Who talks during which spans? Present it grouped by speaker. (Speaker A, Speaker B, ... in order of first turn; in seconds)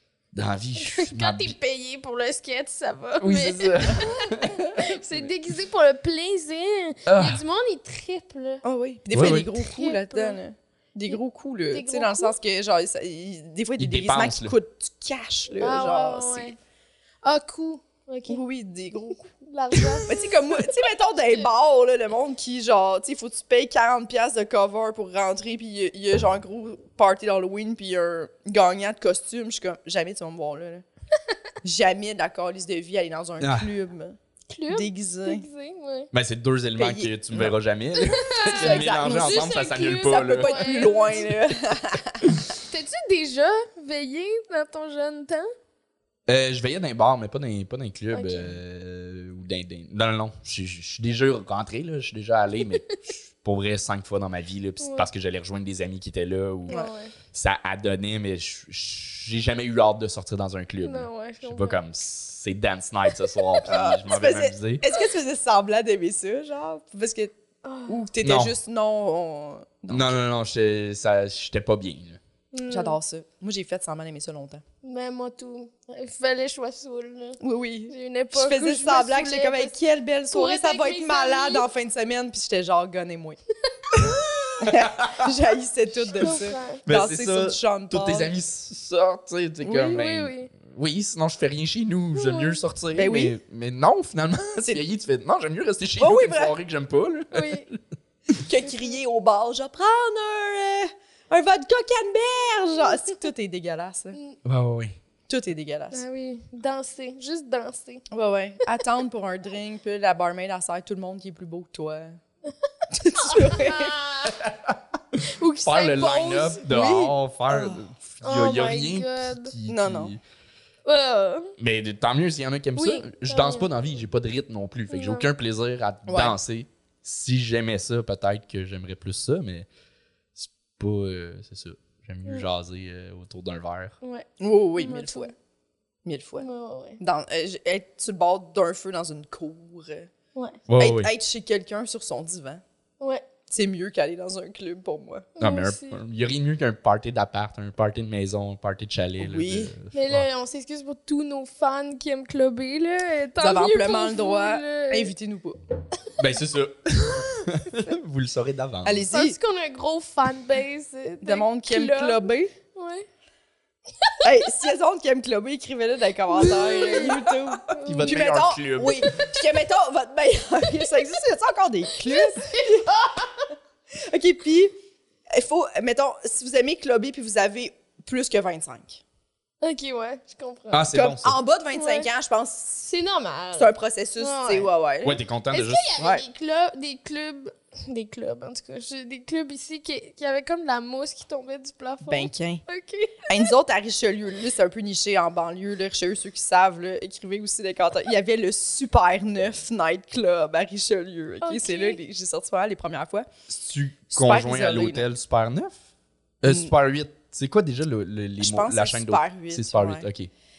Speaker A: 0.3-1.5, 3.2-5.3, 7.1-7.4, 9.1-9.5, 13.8-14.6, 33.4-33.7, 36.1-40.7, 46.3-64.8, 68.2-68.5, 69.9-72.2, 84.0-85.3, 86.8-97.8, 104.4-105.0, 114.3-120.2, 121.6-129.7, 130.4-134.0, 140.7-141.1, 145.4-150.3, 156.2-159.1, 167.8-169.1, 180.7-181.4, 185.0-185.9, 203.5-205.8, 206.4-210.3
Speaker B: 0.8-8.6, 9.3-10.4, 11.7-12.3, 15.6-16.6, 17.2-18.4, 19.3-20.8, 34.5-36.1, 38.0-41.4, 42.7-45.5, 48.1-48.6, 54.8-55.1, 56.7-57.1, 60.8-61.8, 67.6-68.0, 72.5-73.0, 74.8-79.8, 80.3-81.7, 86.2-86.8, 89.9-90.5, 92.1-92.6, 97.3-97.7, 105.9-108.0, 113.1-114.4, 115.4-116.6, 118.2-119.5, 120.8-121.5, 122.8-123.7, 124.9-125.3, 134.8-135.3, 136.4-137.0, 145.4-146.0, 149.9-155.1, 159.1-163.1, 166.3-168.3, 172.0-173.4, 179.6-180.9, 181.7-182.1, 182.9-184.7, 185.5-193.5, 201.4-202.0
Speaker C: 8.6-16.5, 18.3-30.9, 31.6-34.2, 34.7-35.5, 36.8-37.5, 38.5-42.3, 63.6-67.3, 67.9-70.2, 72.7-74.6, 77.4-83.4, 84.6-88.3, 89.6-90.0, 93.0-93.3, 96.0-96.5, 98.3-104.2, 105.3-106.0, 108.1-112.2, 112.9-114.0, 116.7-117.8, 119.7-120.1, 126.1-126.4, 134.4-135.3, 136.1-136.5, 137.0-140.1, 140.8-142.6, 143.5-145.3, 149.2-149.7, 153.4-155.6, 158.8-159.4, 161.2-162.5, 164.2-173.1, 173.9-174.7, 175.3-179.0, 180.9-182.9, 183.6-185.2, 186.0-186.2, 192.1-192.6, 193.3-203.3, 204.1-205.1, 206.4-206.7, 208.4-210.1